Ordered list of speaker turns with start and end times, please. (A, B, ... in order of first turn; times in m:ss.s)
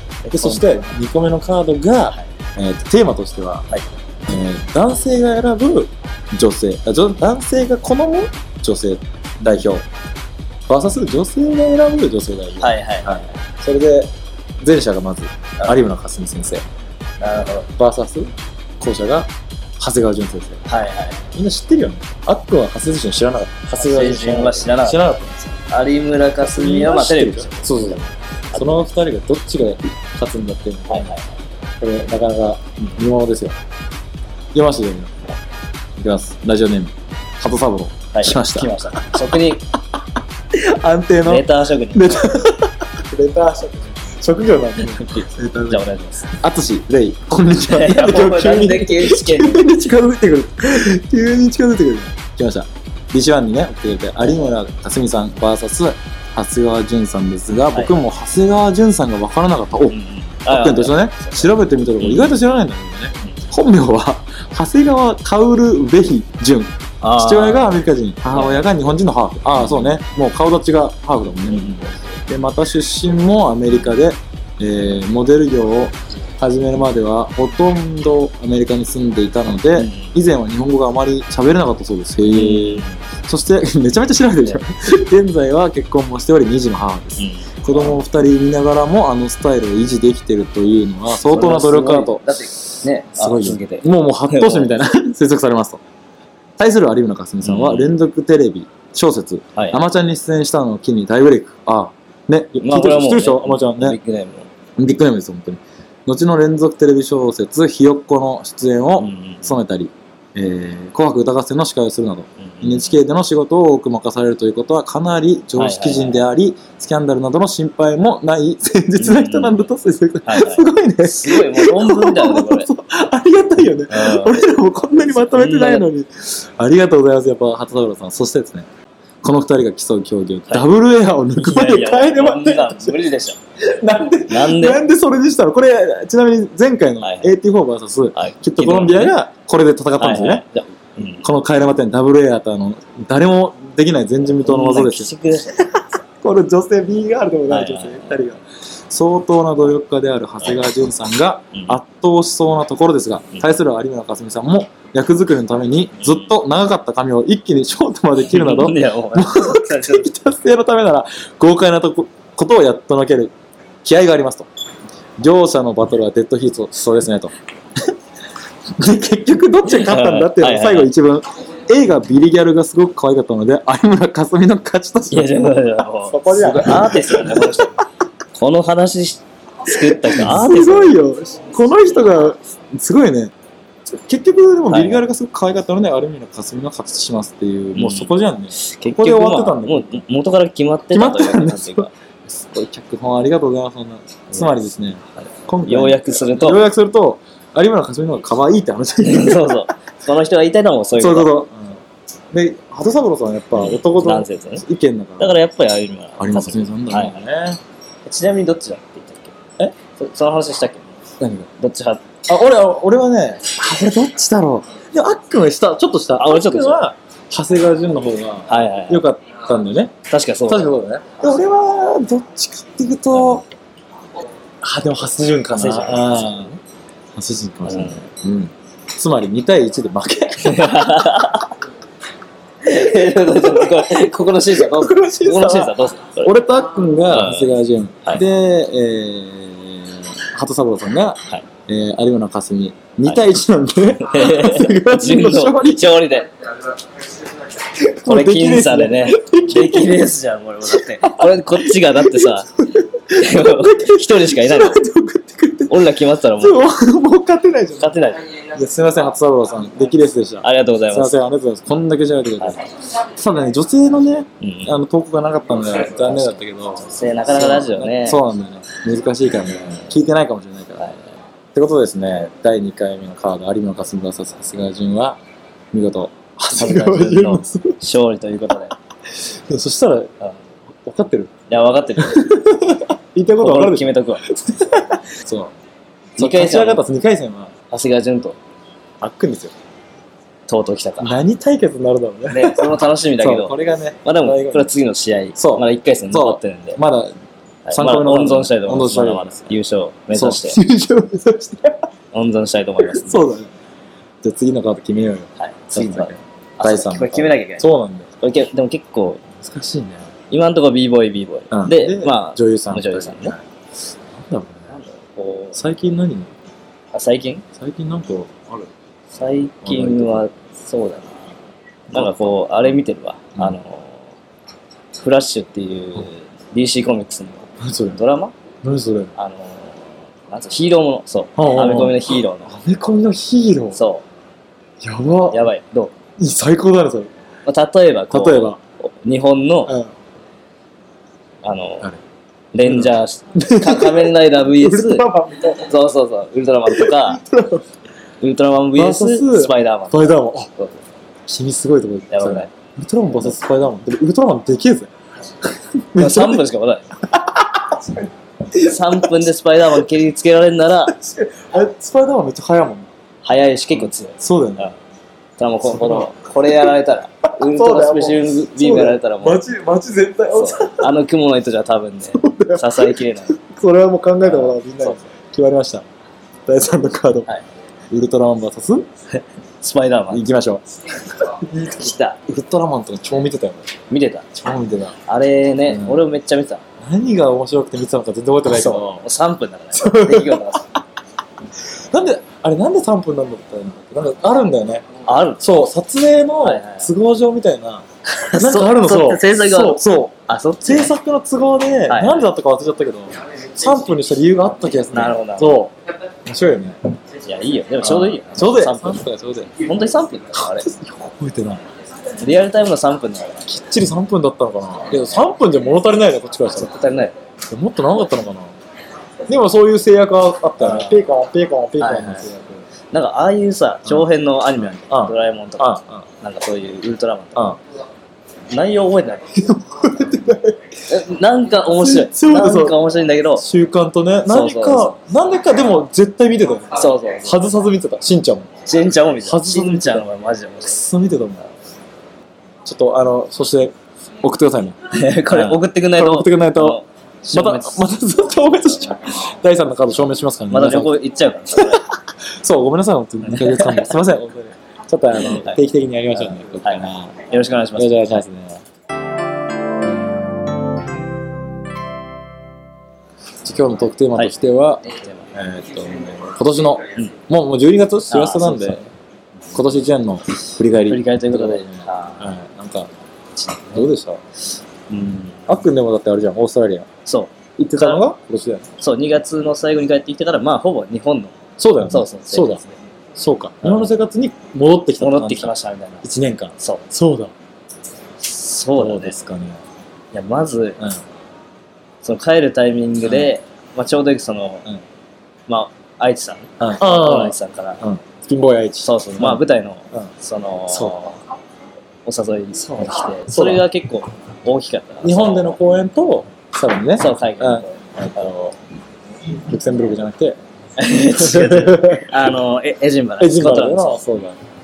0:00.2-0:00.9 A
0:00.3-0:03.7 B
0:04.3-0:09.9 B
0:10.7-0:16.6 B
0:12.6-0:13.4 A
0:17.2-0:17.7 A
0:17.8-0:20.6 B
0:20.7-0:21.3 A
0:21.3-0:25.4 B
0:23.8-0:25.1 A
0:25.7-0:28.9 A
0:26.4-0:31.1 B
0:30.9-0:31.3 A
0:31.8-0:33.6 B
0:32.8-0:33.1 A
0:34.5-0:35.1 B
0:36.0-0:39.5 B
0:38.1-0:39.7 A
0:40.5-1:32.2 B
0:41.2-0:42.3 A
0:45.0-0:46.3 A
0:47.7-0:49.7 A
0:59.9-1:02.4 A
1:03.2-1:03.5 A
1:07.0-1:07.8 A
1:08.3-1:08.7 A
1:09.6-1:10.0 A
1:11.5-1:11.9 A
1:19.8-1:20.2 A
1:22.3-1:23.0 A
1:27.2-1:28.0 A
1:31.2-1:34.8 A
1:33.1-1:35.8 B
1:36.6-1:44.0 B
1:37.4-1:37.9 A
1:39.6-1:39.8 A
1:42.6-1:44.5 A
1:44.8-2:08.7 B
1:49.0-1:49.6 A
1:52.4-1:52.9 A
1:55.6-1:56.2 A
1:59.0-1:59.7 A
2:00.2-2:02.7 A
2:03.9-2:05.9 A
2:09.2-2:13.0 B
2:11.4-2:13.4 A
2:13.7-2:20.4 B
2:14.3-2:14.8 A
2:17.0-2:17.3 A
2:18.2-2:19.1 A
2:20.0-2:21.3 A
2:21.2-2:43.3 B
2:24.4-2:25.6 A
2:27.5-2:28.2 A
2:31.5-2:31.8 A
2:36.0-2:36.3 A
2:38.2-2:40.1 A
2:43.8-2:44.5 B
2:45.2-2:47.3 B
2:48.8-2:57.7 B
2:49.7-2:50.9 A
2:55.1-2:57.8 A
2:58.4-3:01.0 A
2:59.7-3:03.3 B
3:03.9-3:10.0 B
3:04.7-3:05.0 A
3:07.7-3:11.9 A
3:10.9-3:19.7 B
3:14.3-3:14.6 A
3:15.2-3:16.6 A
3:19.0-3:21.3 A
3:21.0-3:21.8 B
3:22.3-3:25.4 B
3:23.5-3:24.6 A
3:25.2-3:27.2 A
3:26.2-3:27.6 B
3:28.0-3:29.4 A
3:30.0-3:31.0 A
3:31.2-3:31.5 B
3:31.6-3:32.0 A
3:32.3-3:39.9 B
3:36.2-3:36.9 A
3:38.5-3:39.0 A
3:40.1-3:40.7 A
3:40.5-3:43.4 B
3:43.1-3:43.4 A
3:44.6-3:46.6 B
3:45.6-3:46.4 A
3:47.2-3:51.0 B
3:47.6-3:48.0 A
3:50.4-3:51.6 A
3:52.6-3:56.4 A
3:53.3-3:53.7 B
3:54.5-4:06.0 B
3:57.1-3:58.2 A
4:04.0-4:06.3 A
4:07.6-4:10.1 B
4:08.1-4:12.5 A
4:10.7-4:31.0 B
4:13.1-4:14.8 A
4:15.7-4:16.7 A
4:17.8-4:18.3 A
4:20.4-4:21.2 A
4:24.4-4:24.8 A
4:26.0-4:28.2 A
4:30.8-4:31.1 A
4:31.5-4:35.2 B
4:35.7-4:37.8 B
4:36.5-4:38.7 A
4:39.3-4:40.1 B
4:40.8-4:41.3 B
4:41.5-4:42.3 A
4:42.0-4:45.5 B
4:43.4-4:44.2 A
4:46.2-4:46.8 A
4:46.2-4:47.5 B
4:47.7-4:48.4 A
4:49.0-4:49.5 B
4:50.5-4:51.2 A
4:51.0-4:54.7 B
4:52.3-4:56.8 A
4:55.4-4:57.1 B
4:57.7-5:00.6 A
4:57.7-4:59.6 B
5:00.1-5:01.8 B
5:02.1-5:03.3 A
5:02.8-5:03.5 B
5:04.2-5:08.1 B
5:05.4-5:07.7 A
5:08.2-5:09.2 A
5:09.4-5:10.1 B
5:10.3-5:13.4 A
5:11.5-5:13.4 B
5:14.1-5:14.7 B
5:14.7-5:15.6 A
5:15.6-5:16.3 B
5:16.9-5:17.4 A
5:17.6-5:18.7 B
5:19.1-5:21.2 A
5:19.6-5:20.2 B
5:21.9-5:22.7 B
5:21.9-5:24.0 A
5:25.0-5:28.3 A
5:27.6-5:28.0 B
5:28.6-5:29.1 B
5:29.2-5:32.6 A
5:31.4-5:33.8 B
5:33.7-5:34.0 A
5:34.8-5:35.4 B
5:35.3-5:35.9 A
5:36.2-5:37.1 B
5:37.4-5:39.8 A
5:38.1-5:38.6 B
5:39.7-5:39.9 B
5:41.4-5:41.9 A
5:42.5-5:45.1 A
5:42.6-5:45.7 B
5:45.6-5:47.2 A
5:46.7-5:47.6 B
5:48.2-5:50.8 A
5:48.8-5:50.5 B
5:51.3-5:54.9 B
5:52.1-5:52.5 A
5:55.6-5:56.4 B
5:56.0-5:56.8 A
5:57.1-5:59.2 B
5:58.6-6:00.9 A
6:00.9-6:02.9 B
6:03.2-6:04.8 A
6:03.7-6:04.7 B
6:05.4-6:09.4 A
6:05.6-6:06.7 B
6:07.3-6:10.9 B
6:10.3-6:13.4 A
6:12.2-6:15.8 B
6:14.2-6:15.0 A
6:16.5-6:17.3 B
6:17.9-6:18.9 B
6:19.1-6:20.2 A
6:20.1-6:23.7 B
6:21.7-6:22.2 A
6:23.9-6:24.3 A
6:24.3-6:25.0 B
6:25.1-6:26.6 A
6:25.7-6:26.0 B
6:26.8-6:29.0 B
6:28.4-6:30.7 A
6:29.8-6:30.8 B
6:31.9-6:34.9 B
6:35.0-6:35.5 A
6:35.4-6:45.7 B
6:36.4-6:36.9 A
6:38.1-6:40.9 A
6:41.9-6:42.3 A
6:44.9-6:45.6 A
6:46.3-6:46.8 B
6:47.2-6:49.0 A
6:47.8-6:49.5 B
6:49.6-6:50.7 A
6:50.4-6:51.6 B
6:52.2-6:53.5 A
6:53.5-6:56.7 B
6:54.9-6:55.2 A
6:56.5-6:57.2 A
6:57.5-6:58.6 B
6:59.3-7:02.6 B
7:00.6-7:01.1 A
7:01.8-7:02.3 A
7:02.9-7:07.6 A
7:04.9-7:06.0 B
7:08.5-7:09.2 A
7:09.4-7:10.6 B
7:10.9-7:13.4 A
7:11.7-7:12.8 B
7:13.4-7:18.5 B
7:14.3-7:15.0 A
7:16.8-7:17.4 A
7:18.6-7:20.8 A
7:19.2-7:20.0 B
7:20.6-7:21.4 B
7:22.6-7:24.8 B
7:24.9-7:27.9 A
7:25.3-7:26.8 B
7:27.3-7:31.0 B
7:30.5-7:31.9 A
7:31.6-7:37.1 B
7:33.2-7:34.0 A
7:35.1-7:35.6 A
7:36.1-7:38.2 A
7:37.8-7:38.6 B
7:43.4-7:48.8 B
7:44.8-7:45.3 A
7:48.1-7:48.9 A
7:49.5-7:52.9 B
7:50.9-7:52.3 A
7:53.4-7:53.9 A
7:53.7-7:54.2 B
7:54.9-7:55.6 A
7:55.5-7:56.9 B
7:57.0-7:58.1 A
7:57.6-7:58.7 B
7:58.8-8:01.4 A
8:01.6-8:02.6 B
8:01.9-8:02.8 A
8:03.2-8:07.3 B
8:03.6-8:03.9 A
8:05.0-8:06.0 A
8:06.6-8:06.8 A
8:08.2-8:09.2 A
8:08.8-8:09.6 B
8:10.1-8:10.8 A
8:12.0-8:14.7 A
8:13.0-8:13.3 B
8:15.5-8:17.8 A
8:16.6-8:20.1 B
8:18.8-8:21.2 A
8:20.7-8:21.0 B
8:22.0-8:25.6 A
8:23.1-8:23.7 B
8:25.0-8:28.6 B
8:27.0-8:28.3 A
8:29.5-8:30.4 B
8:30.8-8:34.0 A
8:31.1-8:32.2 B
8:33.2-8:34.4 B